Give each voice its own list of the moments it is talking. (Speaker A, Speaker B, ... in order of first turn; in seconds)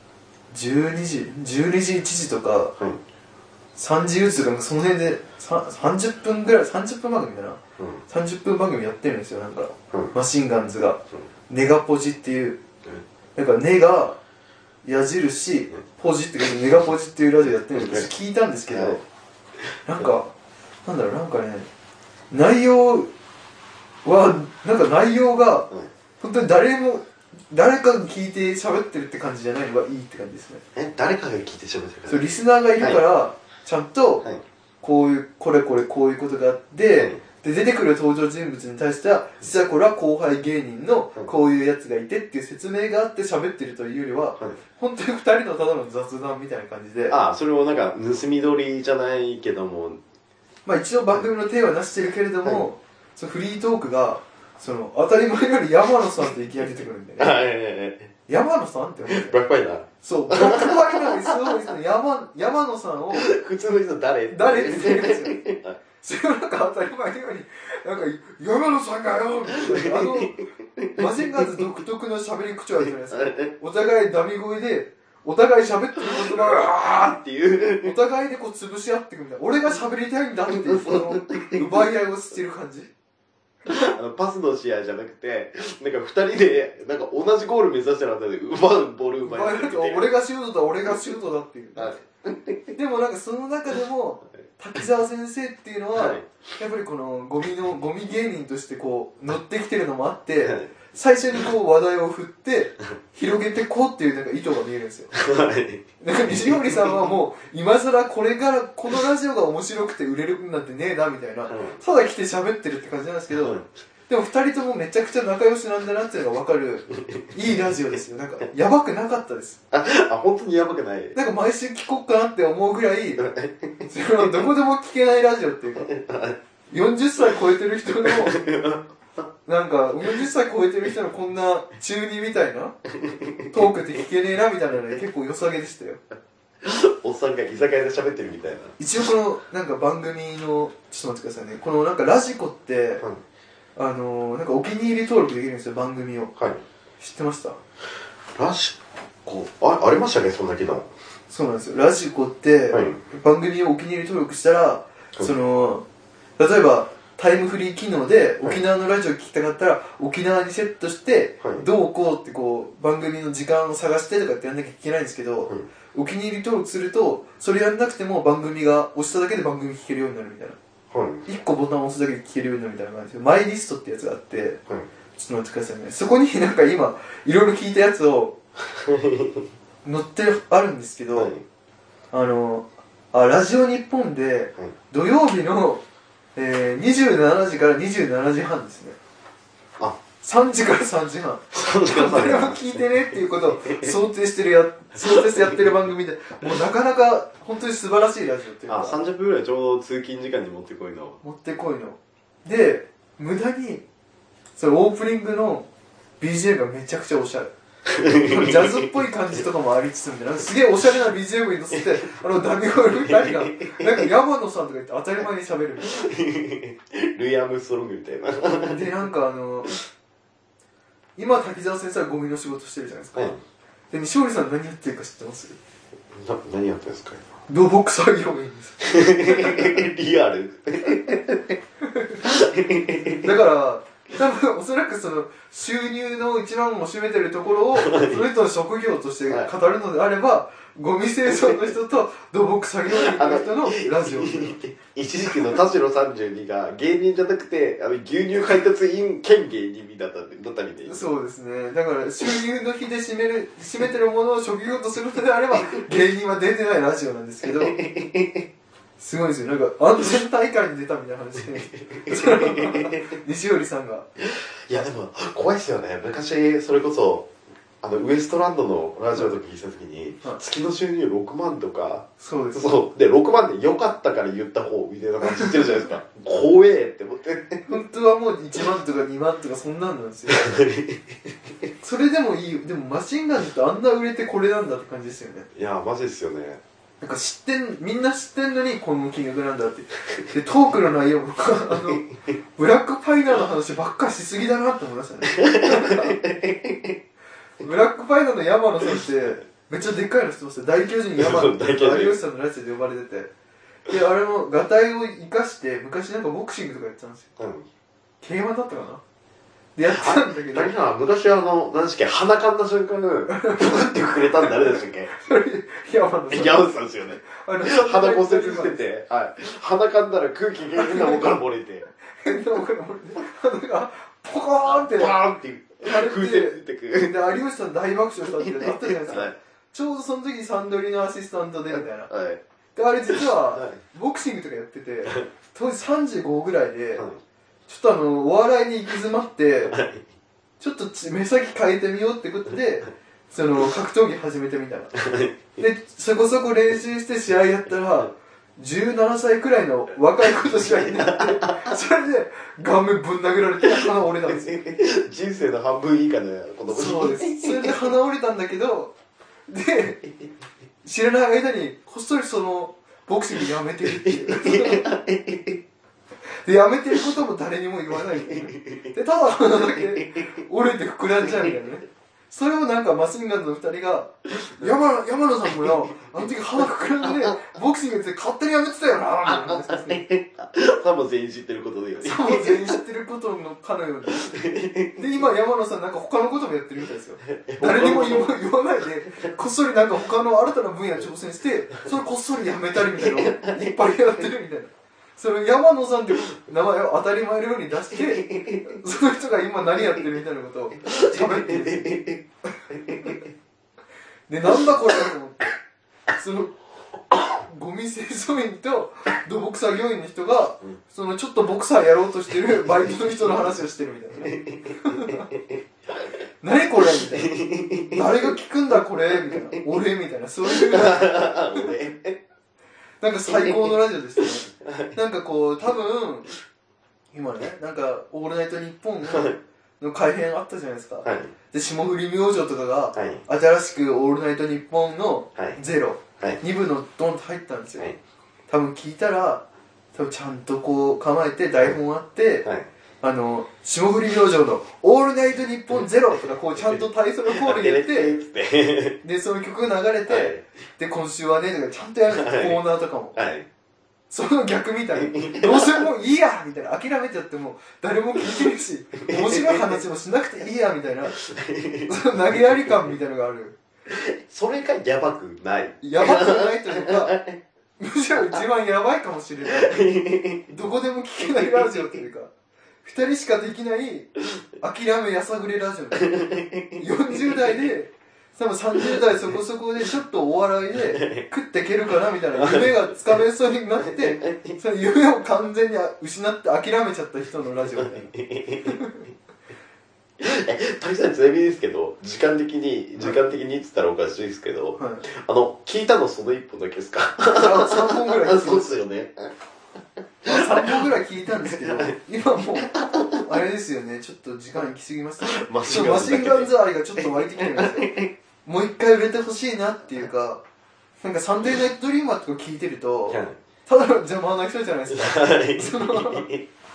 Speaker A: 0.5-2.8, 3.8-12.6, 13.4-14.2, 14.8-19.0, 19.9-20.3, 20.9-21.7, 22.3-23.1, 24.1-30.6, 32.1-34.2, 34.8-47.2, 50.6-57.4, 58.3-59.4, 60.0-63.3, 64.3-65.4, 66.0-70.4, 71.0-76.8, 77.8-82.9, 89.2-92.0, 92.8-105.1, 106.0-119.6, 121.2-123.3, 123.9-125.9, 126.7-128.4, 129.4-132.8, 133.5-136.0, 138.8-143.1, 143.8-146.3, 147.0-147.6, 151.3-155.8, 156.4-170.6, 171.3-174.6, 175.2-178.4, 179.8-181.3, 182.1-185.8, 186.4-189.0, 190.2-199.0, 201.2-203.8, 204.6-205.7, 206.2-207.5, 208.1-216.0, 218.5-219.7, 221.2-223.3, 223.9-225.6, 227.5-229.8, 231.8-232.2, 233.2-244.6, 250.8-257.8, 259.0-264.1, 272.2-272.7, 277.7-280.6, 281.8-285.5, 287.0-292.1, 292.6-296.2, 297.6-303.3, 303.9-307.3, 308.2-309.0, 309.8-310.8, 313.3-318.9, 320.7-321.4, 322.1-325.2, 325.8-332.1, 332.8-337.1, 337.7-339.8, 340.6-345.0, 345.5-354.6, 356.7-358.9, 359.5-360.0, 360.8-364.9, 366.4-380.1, 382.0-384.3, 385.0-402.0, 404.3-405.5, 406.1-406.6, 407.2-415.3, 416.4-417.4, 417.9-421.7, 423.0-426.3, 427.1-437.9, 438.5-442.5, 443.0-448.1, 449.0-453.2, 454.1-461.1, 461.9-463.6, 465.8-467.1, 467.8-469.8, 470.5-472.3, 472.8-476.2, 476.8-488.1, 488.6-489.1, 494.8-495.1, 497.3-498.8, 500.3-507.9, 508.4-510.4, 511.0-516.3
Speaker B: 7.8-8.0, 17.7-18.1, 18.7-19.0, 30.8-32.3, 32.8-33.0, 37.0-37.2, 47.1-50.0, 57.2-58.1, 59.1-61.7, 63.1-65.8, 69.5-71.6, 72.8-73.5, 76.0-78.0, 80.5-81.9, 83.7-90.1, 91.8-92.8, 96.0-96.3, 100.4-100.8, 105.1-107.0, 111.5-111.8, 113.3-113.6, 117.1-117.6, 119.7-121.2, 123.2-124.5, 125.8-126.4, 128.0-129.3, 132.9-133.6, 136.6-138.8, 148.4-150.9, 152.7-153.0, 170.9-171.3, 178.7-179.5, 181.2-181.4, 191.5-193.9, 198.7-201.2, 207.9-208.9, 211.7-212.2, 212.8-214.1, 215.8-219.0, 223.2-223.4, 226.1-227.3, 228.8-231.6, 232.2-233.3, 237.8-238.2, 241.2-241.7, 242.9-251.0, 257.4-258.5, 261.4-263.2, 264.2-267.3, 267.8-277.7, 280.3-281.1, 285.5-286.6, 291.7-292.2, 295.4-297.0, 301.2-302.2, 307.4-307.7, 309.9-315.1, 316.3-321.9, 324.6-327.3, 328.3-329.4, 331.7-332.4, 333.1-333.8, 339.7-340.1, 344.9-345.4, 350.2-351.7, 353.6-357.8, 363.9-365.6, 367.9-368.9, 369.5-370.3, 371.2-371.5, 374.4-374.7, 375.5-377.4, 379.2-382.8, 384.1-385.1, 387.3-388.4, 393.0-394.0, 397.9-398.8, 400.8-403.3, 414.2-414.7, 416.9-418.3, 419.1-419.5, 420.4-422.2, 423.3-424.9, 429.0-429.4, 431.0-431.3, 432.9-433.2, 447.3-449.0, 450.1-450.4, 452.1-452.6, 453.1-453.5, 455.0-455.8, 459.1-459.8, 461.1-462.9, 463.9-467.4, 468.2-468.4, 469.4-470.5, 471.2-472.0, 475.9-477.7, 480.8-481.2, 482.3-483.2, 483.8-484.6, 487.7-488.8, 490.2-499.3, 500.2-501.9, 502.6-503.4, 505.2-508.1, 513.1-513.4, 514.9-516.5